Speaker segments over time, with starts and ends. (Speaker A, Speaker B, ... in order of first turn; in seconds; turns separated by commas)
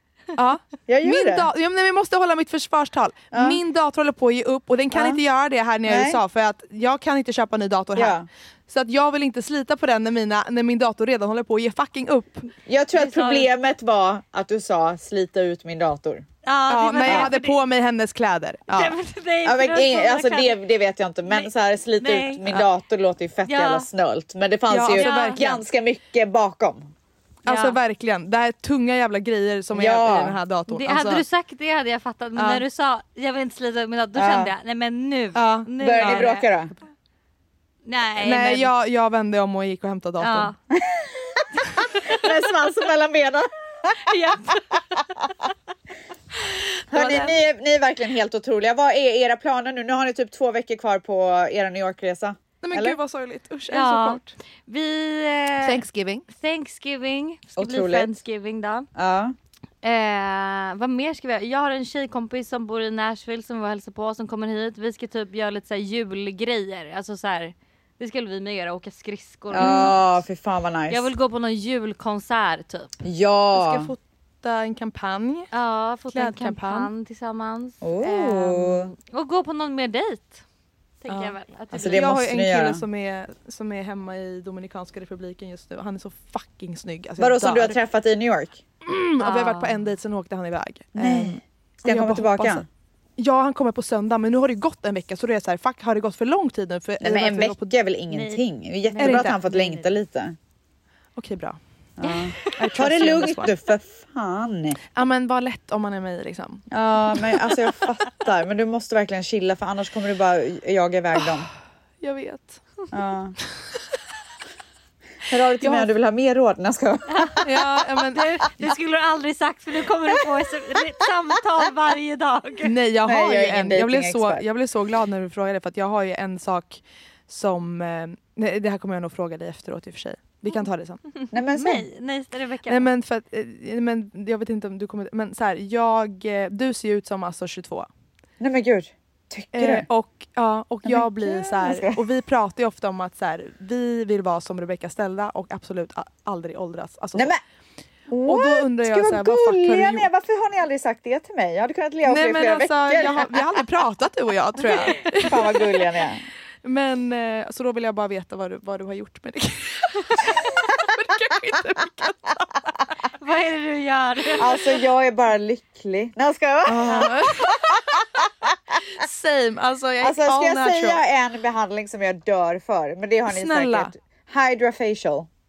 Speaker A: 0.3-12.5, Speaker B: 0.9-1.5, Speaker B: 3.3-3.6, Speaker B: 4.9-5.2, Speaker B: 5.8-6.2, Speaker B: 8.0-8.3, Speaker B: 12.7-16.2, Speaker C: 12.9-13.5, Speaker C: 16.4-17.6, Speaker A: 16.7-18.9, Speaker B: 17.0-17.3, Speaker C: 18.7-20.6, Speaker B: 19.4-26.8, Speaker C: 21.3-22.4, Speaker C: 23.4-23.9, Speaker A: 24.7-25.6, Speaker C: 24.9-25.5, Speaker A: 27.4-31.2, Speaker C: 27.5-27.8, Speaker B: 29.7-30.4, Speaker C: 30.7-36.5, Speaker A: 32.4-32.6, Speaker B: 34.1-34.5, Speaker A: 35.3-36.3, Speaker B: 35.8-36.7, Speaker C: 37.8-38.7, Speaker A: 38.2-40.5, Speaker C: 40.2-40.5, Speaker B: 40.7-41.5, Speaker B: 42.0-44.0, Speaker C: 44.0-45.0, Speaker B: 46.9-53.0, Speaker C: 46.9-47.3, Speaker A: 52.6-54.4, Speaker C: 53.7-58.9, Speaker A: 55.6-56.2, Speaker B: 57.6-58.1, Speaker B: 58.9-59.3, Speaker C: 59.8-70.2, Speaker B: 69.5-71.0, Speaker A: 69.6-70.0, Speaker C: 70.9-73.0, Speaker B: 73.0-73.9, Speaker A: 73.5-75.5, Speaker C: 75.5-80.4, Speaker A: 76.1-76.9, Speaker B: 77.8-78.9, Speaker C: 81.0-82.1, Speaker A: 81.1-87.8, Speaker B: 81.7-82.8, Speaker B: 87.2-88.6, Speaker A: 88.8-92.7, Speaker C: 89.2-89.8, Speaker B: 90.9-92.7, Speaker A: 93.2-97.7, Speaker B: 97.0-100.3, Speaker C: 98.1-99.9, Speaker A: 99.0-99.4, Speaker A: 101.2-101.6, Speaker B: 102.0-104.8, Speaker C: 102.0-102.7, Speaker A: 102.5-103.5, Speaker A: 104.9-106.7, Speaker B: 106.7-111.5, Speaker A: 112.0-112.6, Speaker B: 112.9-113.3, Speaker B: 115.3-117.6, Speaker A: 115.6-115.9, Speaker C: 117.1-117.5, Speaker A: 117.4-118.7, Speaker C: 118.1-122.7, Speaker A: 122.6-131.0, Speaker B: 123.0-124.4, Speaker C: 131.1-132.9, Speaker B: 131.3-131.8, Speaker A: 132.7-137.9, Speaker B: 138.4-139.9, Speaker A: 139.5-147.3, Speaker B: 140.8-142.1, Speaker B: 147.1-147.4, Speaker B: 148.1-153.6, Speaker A: 148.2-150.1, Speaker A: 152.0-155.6, Speaker B: 155.1-156.2, Speaker A: 156.6-162.7, Speaker C: 163.2-164.5, Speaker B: 164.4-168.5, Speaker A: 166.6-168.0, Speaker A: 168.9-171.0, Speaker B: 170.0-175.3, Speaker A: 173.3-173.9